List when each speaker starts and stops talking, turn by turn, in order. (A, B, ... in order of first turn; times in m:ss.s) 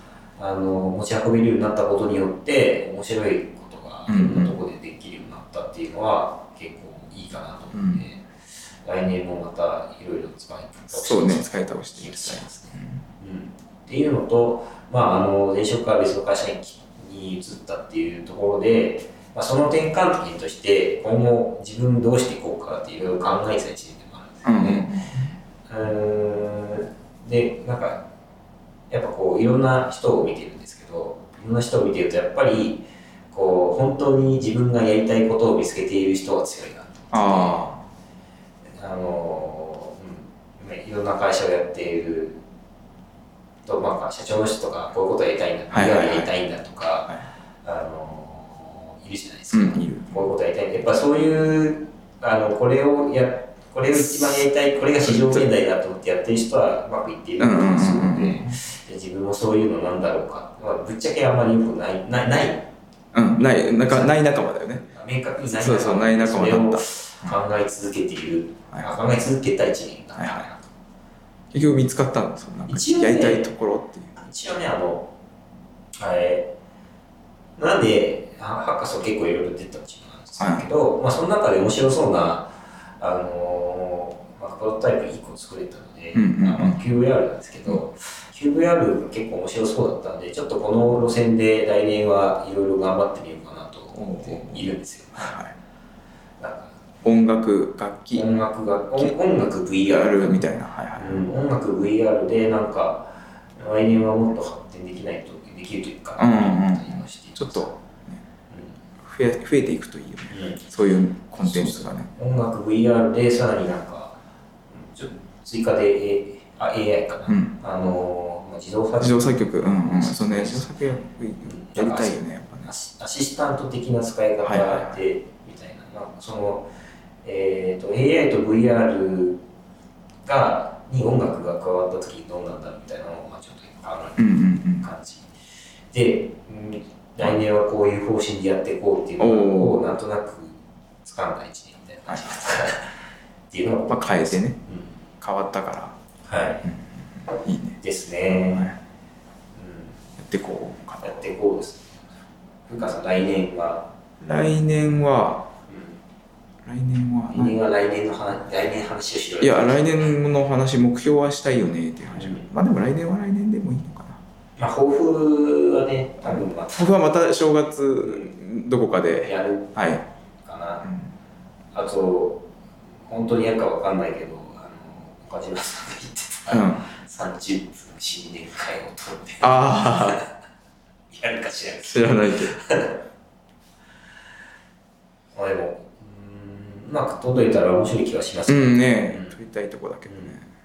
0:00.4-0:08.3 A
0:04.1-0:04.6 B
0:07.7-0:08.0 B
0:08.8-0:24.9 A
0:10.9-0:13.0 B
0:24.4-0:25.3 B
0:25.7-0:28.0 A
0:28.9-0:37.7 A
0:37.1-0:37.8 B
0:38.8-0:42.4 A
0:43.7-1:02.7 A
0:45.7-0:46.3 B
0:49.5-0:50.3 B
0:53.9-0:54.4 B
0:55.0-0:55.5 B
0:57.4-0:58.6 B
1:03.1-1:04.9 B
1:03.8-1:10.7 A
1:05.4-1:07.4 B
1:10.2-1:10.5 B
1:11.5-1:14.1 B
1:12.7-1:13.5 A
1:14.2-1:15.1 A
1:16.0-1:16.5 A
1:17.6-1:35.4 A
1:20.4-1:20.7 B
1:26.1-1:26.8 B
1:33.9-1:35.5 B
1:36.4-1:36.8 A
1:37.0-1:38.4 B
1:38.1-1:47.8 A
1:39.9-1:41.3 B
1:46.2-1:48.2 B
1:48.5-1:48.8 A
1:49.0-1:52.1 B
1:50.3-1:50.6 A
1:51.4-1:54.2 A
1:54.7-2:00.7 A
1:57.3-1:57.5 B
1:59.0-2:02.7 B
2:01.4-2:06.7 A
2:04.4-2:04.9 B
2:07.2-2:09.4 A
2:10.2-2:15.4 A
2:14.2-2:14.9 B
2:15.9-2:23.0 A
2:19.2-2:20.0 B
2:22.1-2:22.4 B
2:23.5-2:25.0 A
2:23.9-2:24.6 B
2:25.2-2:26.0 B
2:26.2-2:26.7 A
2:26.6-2:28.8 B
2:27.8-2:28.8 A
2:29.6-2:30.0 A
2:30.2-2:31.3 B
2:31.0-2:32.0 A
2:32.7-2:33.9 A
2:34.2-2:35.5 B
2:35.7-2:36.0 A
2:36.6-2:37.6 B
2:37.3-2:40.2 A
2:39.4-2:44.2 B
2:42.1-2:42.5 A
2:44.6-2:47.0 A
2:46.2-2:50.1 B
2:48.0-2:48.4 A
2:49.2-2:49.8 A
2:50.4-2:50.9 A
2:50.8-2:51.1 B
2:51.7-2:52.4 A
2:53.1-3:00.3 A
2:56.5-2:56.8 B
2:59.4-3:00.2 B
3:01.1-3:03.0 A
3:01.8-3:02.6 B
3:05.4-3:09.4 A
3:08.5-3:10.5 B
3:10.1-3:10.4 A